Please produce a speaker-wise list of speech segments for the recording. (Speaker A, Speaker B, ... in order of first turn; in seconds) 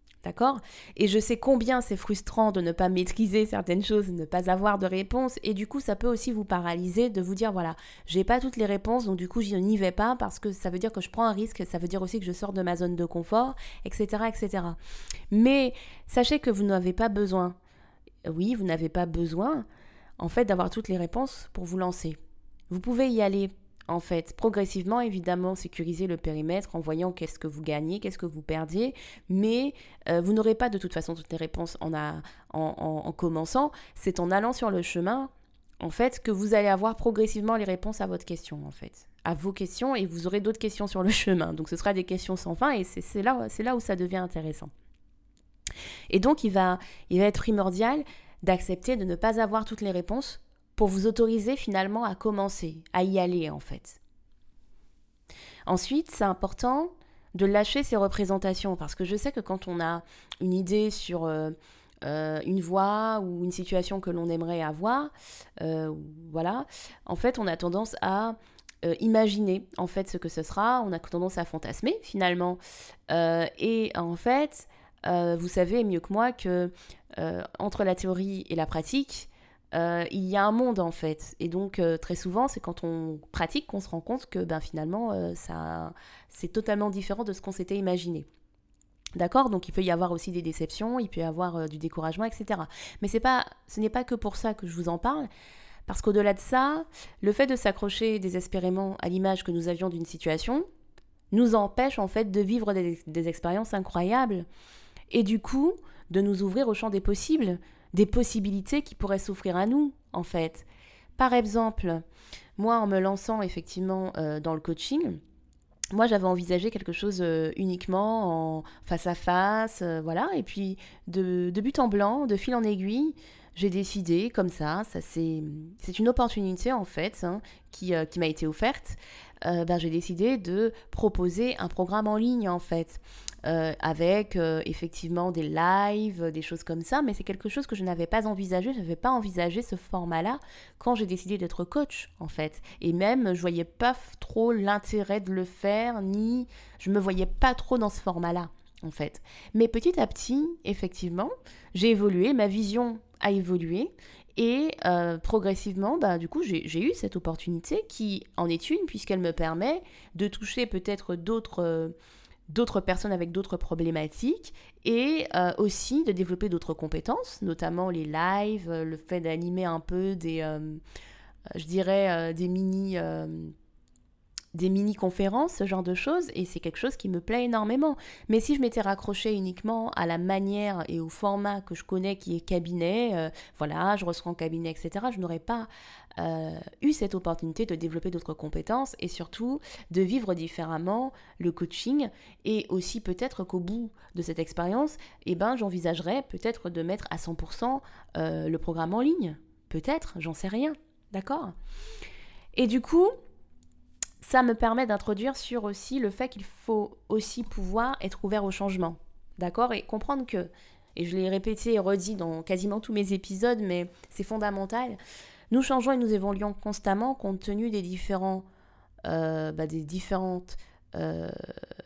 Speaker A: 0.2-14.8, 15.3-17.6, 18.2-19.7, 20.2-22.2, 22.7-35.3, 35.8-44.7, 46.1-54.0, 55.7-88.3, 89.2-95.3, 95.9-100.7, 101.3-104.5, 105.1-110.7, 111.2-112.0, 112.6-115.2, 115.9-161.9, 162.5-170.8, 171.6-173.5, 174.5-201.5, 202.5-203.1, 204.2-215.0, 215.5-218.4, 219.1-221.5